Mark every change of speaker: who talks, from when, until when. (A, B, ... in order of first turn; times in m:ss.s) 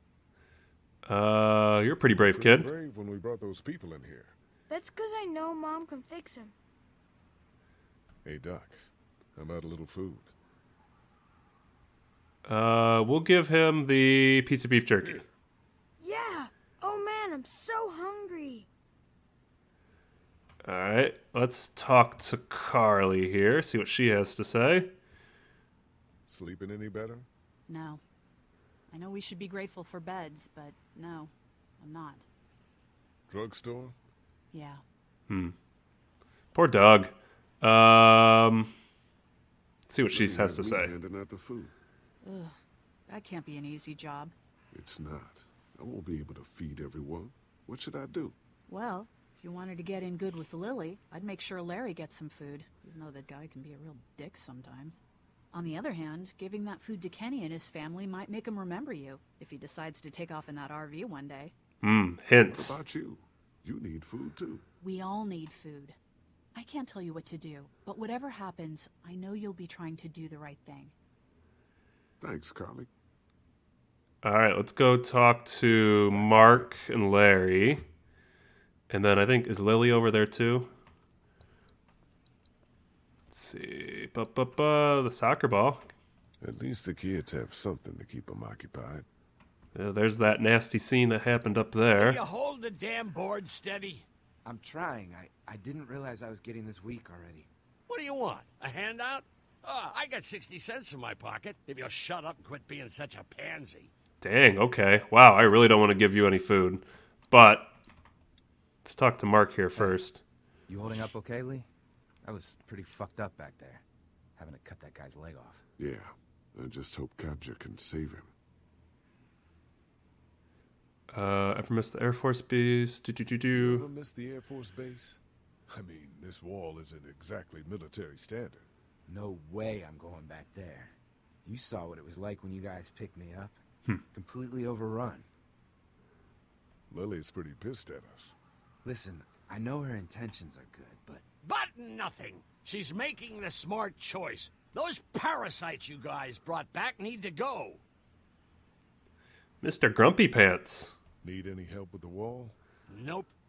0:01.0-0:02.7 A
0:02.2-0:04.4 B
0:04.7-0:06.5 C
0:08.2-0:10.3 B
0:12.4-0:15.2 A
0:15.0-0:15.3 B
0:16.0-0:18.7 C
0:20.6-0:24.9 A
0:26.3-0:27.3 B
0:27.7-0:28.0 D
0:28.9-0:32.3 D
0:33.3-0:33.9 B
0:34.5-0:34.8 D
0:35.3-0:35.6 A
0:36.5-0:38.7 A
0:39.9-0:40.9 A
0:40.1-0:41.7 B
0:42.2-0:42.6 D
0:43.1-0:44.3 D
0:44.7-0:48.4 B
0:48.7-0:55.0 D
0:55.5-1:01.5 D
1:01.8-1:02.8 A
1:02.5-1:04.6 B
1:04.8-1:06.0 D
1:06.6-1:10.9 D
1:12.2-1:12.9 B
1:14.2-1:17.9 A
1:15.8-1:16.7 B
1:18.9-1:20.7 A
1:23.3-1:25.9 A
1:26.4-1:29.1 B
1:29.8-1:32.2 A
1:32.0-1:34.1 E
1:34.4-1:37.5 F
1:37.9-1:43.9 E
1:44.2-1:47.7 A
1:48.8-1:50.2 A
1:50.7-1:51.7 F
1:52.2-1:53.8 F
1:54.4-1:55.6 F
1:55.8-1:58.3 B
2:01.1-2:03.9 A
2:03.6-2:08.7 B
2:09.1-2:13.6 F
2:14.1-2:15.3 F
2:16.9-2:18.4 B
2:18.8-2:21.2 F
2:21.4-2:27.8 E
2:29.6-2:30.9 A
2:31.2-2:32.6 B
2:32.9-2:33.3 E